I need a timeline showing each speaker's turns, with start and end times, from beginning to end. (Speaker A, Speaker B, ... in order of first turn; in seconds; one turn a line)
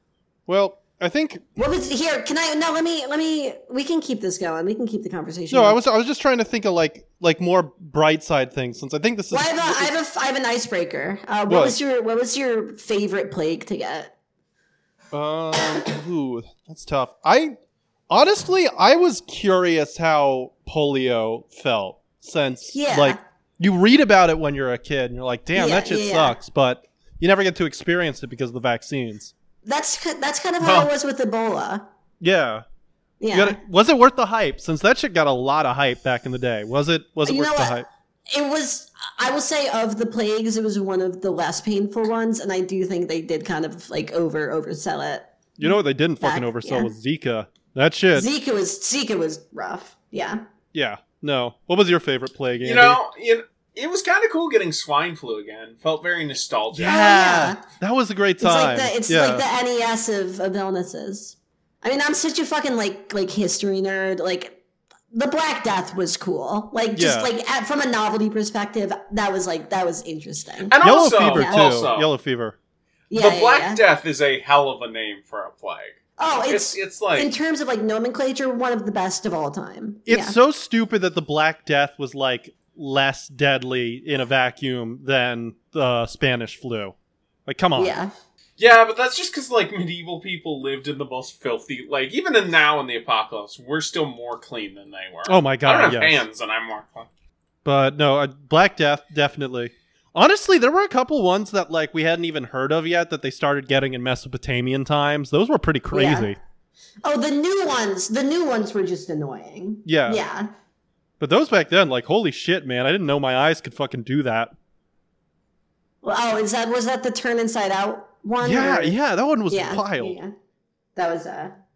Speaker A: 0.5-1.5
Speaker B: 1.6-5.8
Speaker A: 5.5-9.9
Speaker B: 9.3-14.1
Speaker A: 11.5-11.8
Speaker A: 15.1-17.6
Speaker A: 18.1-29.3
Speaker B: 22.7-23.2
Speaker B: 25.5-26.4
Speaker B: 29.6-31.8
Speaker C: 30.6-30.9
Speaker A: 32.2-32.6
Speaker B: 33.2-33.6
Speaker A: 33.3-37.9
Speaker B: 37.2-46.9
Speaker A: 45.6-48.3
Speaker B: 48.1-50.4
Speaker A: 50.7-53.0
Speaker C: 52.6-57.0
Speaker A: 56.7-59.4
Speaker B: 56.8-57.6
Speaker B: 58.4-64.6
Speaker B: 65.1-71.8
Speaker A: 66.9-67.3
Speaker C: 70.7-72.1
Speaker A: 70.8-72.5
Speaker B: 73.1-73.8
Speaker C: 73.1-77.3
Speaker B: 76.2-80.4
Speaker A: 80.0-86.9
Speaker A: 87.5-88.0
Speaker B: 87.8-88.1
Speaker C: 88.6-97.1
Speaker A: 95.2-96.2
Speaker A: 97.6-106.4
Speaker B: 105.9-106.3
Speaker B: 107.0-110.5
Speaker A: 109.8-110.2
Speaker A: 111.2-114.5
Speaker B: 116.0-118.9
Speaker A: 118.4-120.2
Speaker B: 119.5-120.3
Speaker B: 121.0-121.5